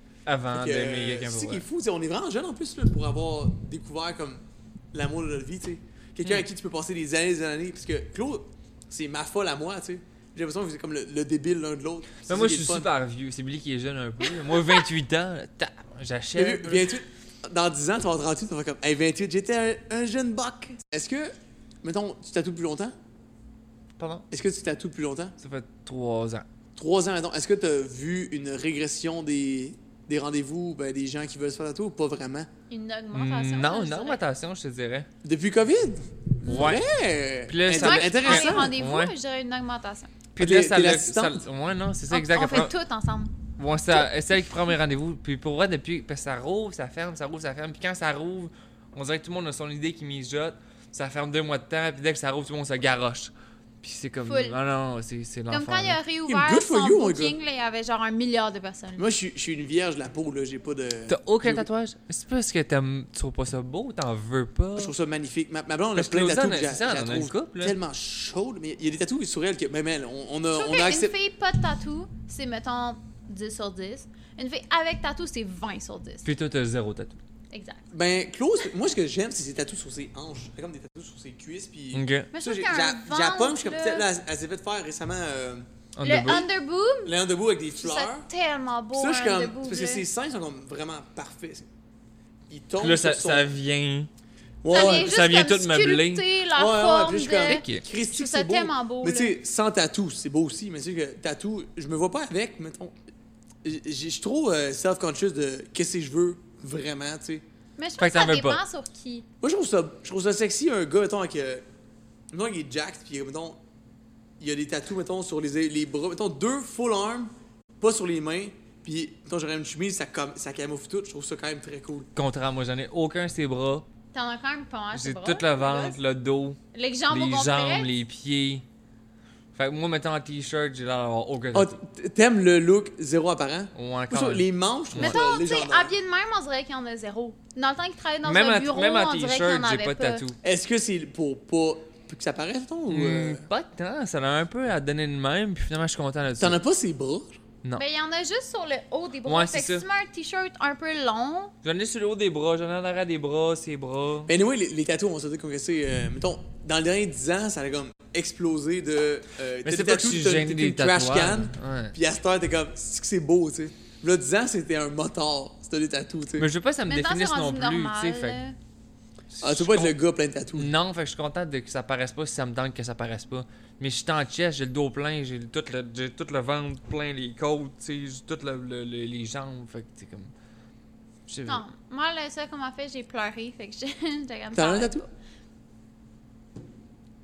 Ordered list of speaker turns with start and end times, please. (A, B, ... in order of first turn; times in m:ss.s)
0:00.2-0:01.6 A
0:00.5-0:04.4 B
0:04.9-0:12.9 B
0:12.2-0:16.9 A
0:16.3-0:22.9 B
0:24.0-0:24.2 A
0:24.3-0:25.3 B
0:25.4-0:26.4 A
0:26.8-0:32.5 B
0:32.7-0:34.2 C
0:33.1-0:35.1 A
0:35.2-0:38.7 B
0:36.4-0:36.9 A
0:37.5-0:39.1 A
0:37.7-0:40.1 C
0:40.3-0:42.7 A
0:40.4-0:41.4 B
0:42.1-0:43.3 C
0:43.6-0:56.0 A
0:54.2-0:54.6 C
0:55.5-0:59.0 C
0:56.2-0:57.4 B
0:59.0-1:01.7 B
1:01.1-1:04.9 A
1:04.8-1:11.1 B
1:05.9-1:07.8 A
1:10.5-1:16.2 C
1:16.2-1:17.2 A
1:17.5-1:17.8 C
1:17.9-1:25.7 B
1:21.9-1:22.3 A
1:22.3-1:24.1 C
1:26.0-1:26.5 A
1:26.0-1:27.1 C
1:27.0-1:28.3 B
1:27.8-1:30.0 C
1:28.9-1:31.7 B
1:32.5-1:33.5 B
1:32.8-1:34.1 A
1:34.6-1:35.1 B
1:34.7-1:36.2 A
1:34.7-1:39.3 C
1:36.5-1:42.9 B
1:37.4-1:37.8 A
1:43.6-1:47.4 B
1:47.8-1:49.2 C
1:48.0-1:48.6 A
1:49.4-1:51.6 B
1:52.3-1:53.6 B
1:54.4-2:02.1 B
2:02.2-2:03.8 A
2:04.1-2:06.0 C
2:04.9-2:06.6 A
2:06.7-2:07.9 C
2:07.1-2:08.6 A
2:09.5-2:11.8 A
2:11.5-2:15.9 B
2:13.7-2:15.2 A
2:15.0-2:20.2 C
2:18.2-2:20.4 A
2:20.4-2:23.4 B
2:22.9-2:26.6 A
2:26.4-2:27.4 B
2:27.8-2:31.5 C
2:29.2-2:29.8 A
2:31.6-2:34.3 A
2:34.2-2:46.5 B
2:39.6-2:41.9 A
2:46.4-2:48.4 A
2:46.9-2:48.6 C
2:49.3-2:49.9 A
2:49.4-2:50.7 B
2:50.5-3:00.3 A
3:01.3-3:01.6 A
3:01.5-3:05.1 C
3:04.5-3:05.0 B